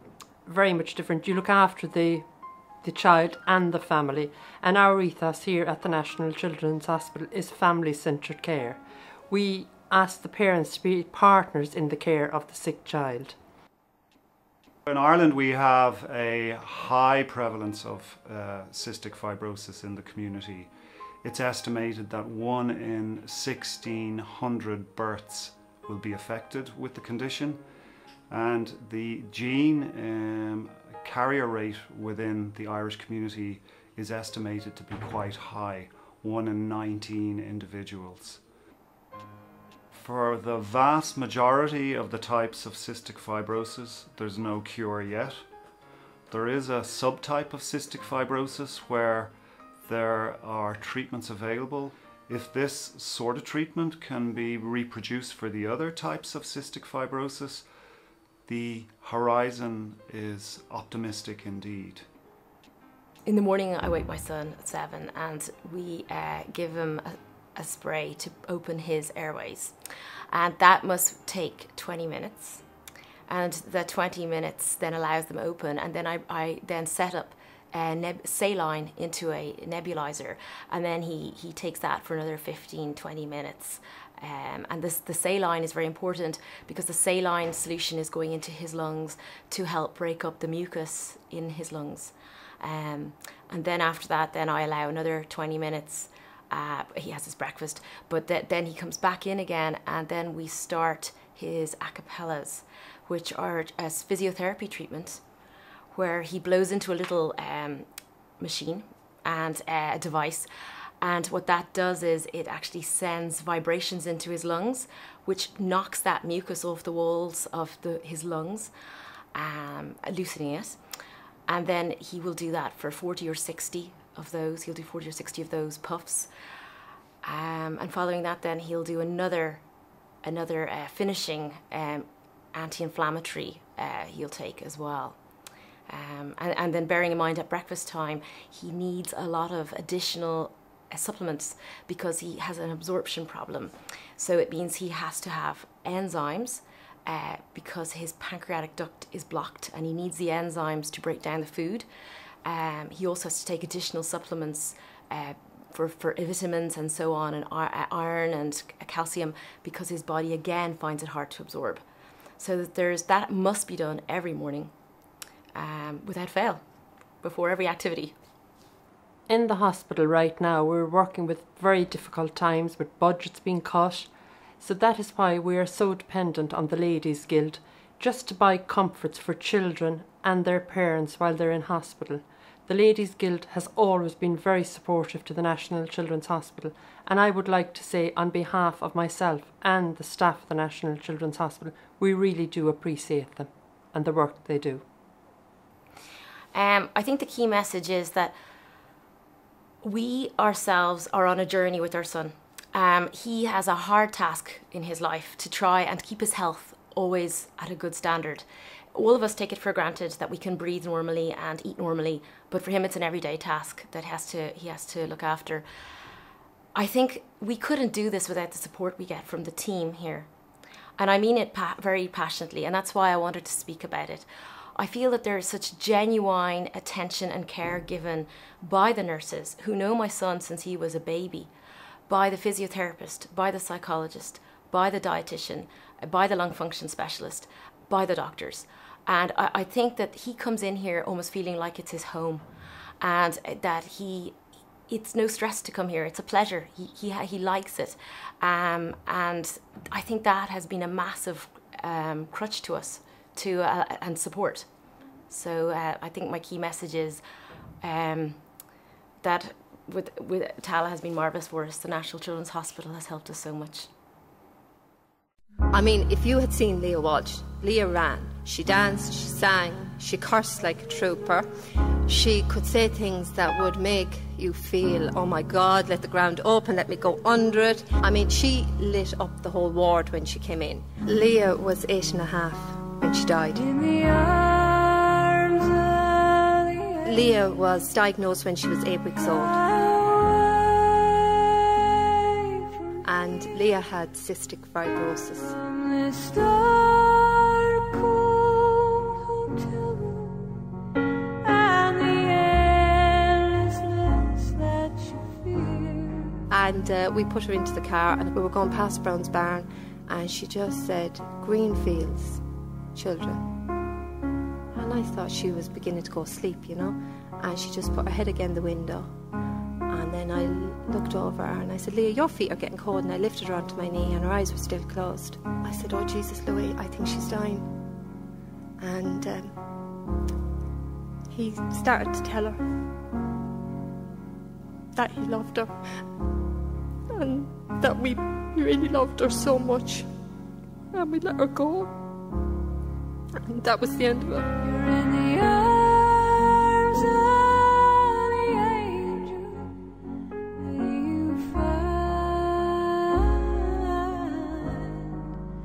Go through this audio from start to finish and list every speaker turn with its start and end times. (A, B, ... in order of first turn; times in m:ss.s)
0:00.5-0:02.3 A
0:02.8-0:13.4 A
0:14.9-0:20.7 B
0:21.2-0:27.6 B
0:28.3-0:38.4 B
0:39.9-0:45.4 B
0:46.3-0:57.7 B
0:58.5-1:02.1 B
1:03.3-1:09.8 C
1:10.3-1:12.6 C
1:13.3-1:45.2 C
1:45.9-1:47.9 C
1:48.4-1:50.5 C
1:51.0-1:58.7 C
1:59.3-2:00.8 C
2:01.5-2:06.3 C
2:07.2-2:09.6 C
2:10.2-2:15.2 C
2:15.9-2:31.9 C
2:32.4-2:41.8 C
2:42.4-2:44.7 C
2:45.6-2:46.6 C
2:47.2-2:48.2 C
2:49.3-3:14.8 A
3:16.5-3:18.4 C
3:19.8-3:35.6 C
3:36.8-3:40.3 C
3:41.0-3:51.5 C
3:52.1-4:02.4 C
4:03.0-4:04.4 C
4:04.9-4:14.7 C
4:15.3-4:17.2 C
4:17.8-4:18.4 C
4:19.2-4:23.9 C
4:25.7-4:31.5 D
4:32.1-4:43.8 D
4:44.0-4:47.0 A
4:47.0-4:49.6 D
4:50.1-4:51.3 A
4:53.0-4:55.6 D
4:55.8-5:00.6 A
5:01.4-5:06.5 A
5:06.5-5:12.4 D
5:12.9-5:13.5 D
5:14.7-5:19.1 D
5:19.9-5:27.6 D
5:28.8-5:29.6 D
5:31.3-5:32.6 D
5:35.0-5:35.7 D
5:37.1-5:40.1 D
5:40.9-5:41.9 D
5:43.4-5:44.6 D
5:44.7-5:49.7 A
5:50.6-5:55.2 A